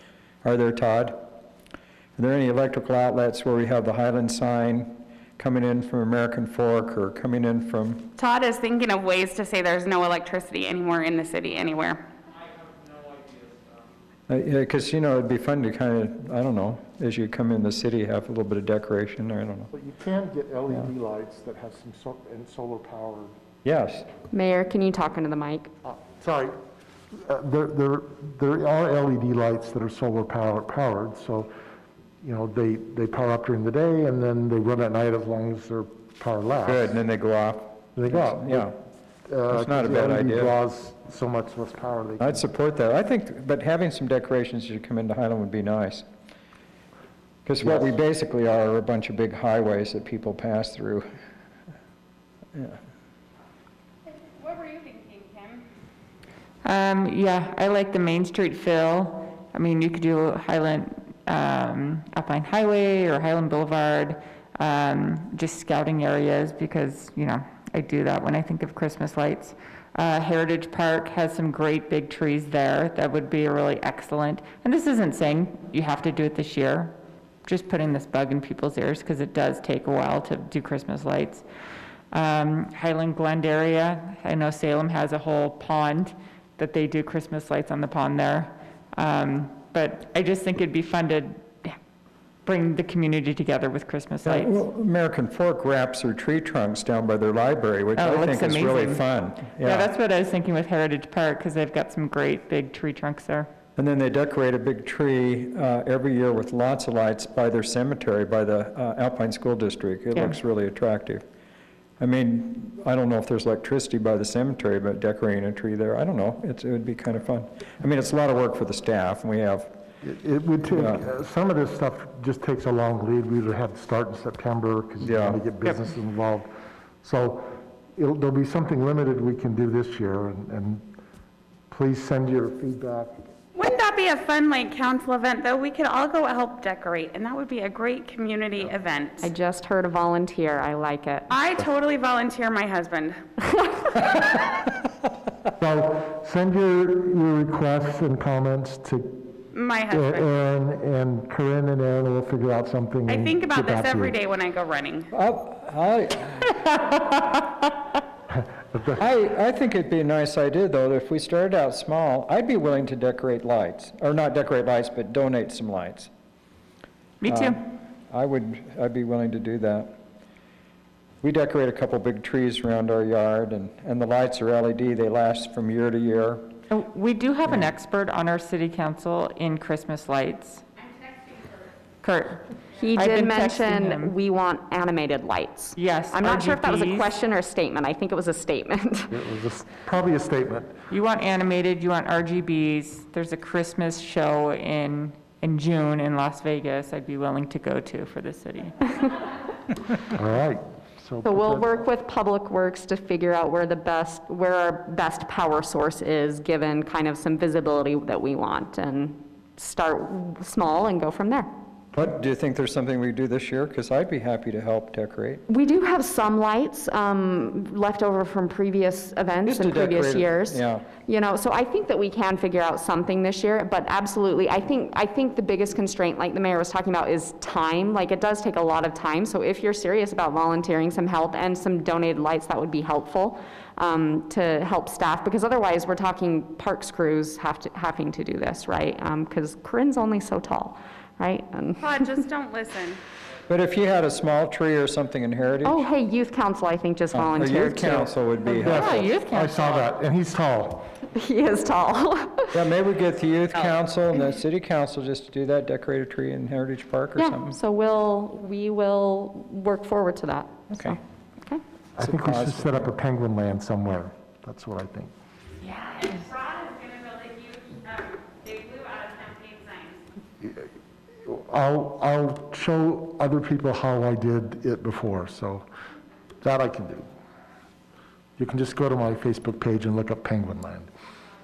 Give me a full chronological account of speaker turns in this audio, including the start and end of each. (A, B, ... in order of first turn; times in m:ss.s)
0:00.4-0:01.2 A
0:02.2-0:08.1 A
0:08.2-0:12.0 B
0:14.3-0:19.7 A
0:19.7-0:23.3 C
0:23.6-0:24.1 A
0:24.3-0:25.7 D
0:25.8-0:26.6 C
0:27.1-0:31.5 C
0:32.2-0:36.9 C
0:36.6-0:38.7 A
0:38.0-0:42.4 C
0:39.5-0:40.5 A
0:42.2-0:46.0 A
0:47.4-0:51.1 A
0:47.6-0:47.9 C
0:54.1-0:55.6 B
0:56.6-1:21.4 E
1:22.1-1:31.8 E
1:32.4-1:34.6 E
1:34.2-1:39.9 A
1:38.0-1:39.0 E
1:39.6-1:43.5 E
1:43.8-1:51.2 A
1:52.0-1:59.7 A
2:00.0-2:06.5 C
2:00.7-2:01.0 A
2:05.0-2:05.4 A
2:07.0-2:10.8 C
2:11.7-2:13.2 C
2:13.5-2:19.3 B
2:19.2-2:21.3 D
2:21.3-2:23.2 B
2:23.4-2:24.2 D
2:25.6-2:29.4 C
2:29.5-2:30.3 B
2:29.9-2:34.2 C
2:33.1-2:35.1 B
2:35.1-2:36.6 A
2:39.0-2:46.1 A
2:47.2-2:47.6 E
2:47.3-2:50.0 A
2:51.2-2:56.5 A
2:56.7-3:00.6 E
3:02.0-3:04.1 E
3:02.7-3:09.1 D
3:05.7-3:07.1 E
3:09.1-3:10.8 C
3:10.9-3:19.1 E
3:20.1-3:21.8 C
3:21.2-3:31.5 D
3:31.9-3:35.4 A
3:35.5-4:02.1 D
3:39.4-3:40.8 A
4:01.8-4:03.0 B
4:03.5-4:05.8 A
4:05.6-4:08.1 D
4:07.1-4:09.0 A
4:08.4-4:09.9 E
4:08.6-4:10.9 C
4:11.2-4:12.5 D
4:12.5-4:17.6 A
4:17.2-4:21.6 D
4:20.7-4:21.0 A
4:22.0-4:25.1 C
4:22.0-4:22.9 A
4:25.6-4:26.1 E
4:26.0-4:30.0 B
4:30.4-4:30.7 C
4:31.2-4:35.6 C
4:36.4-4:37.1 C
4:38.4-4:40.9 C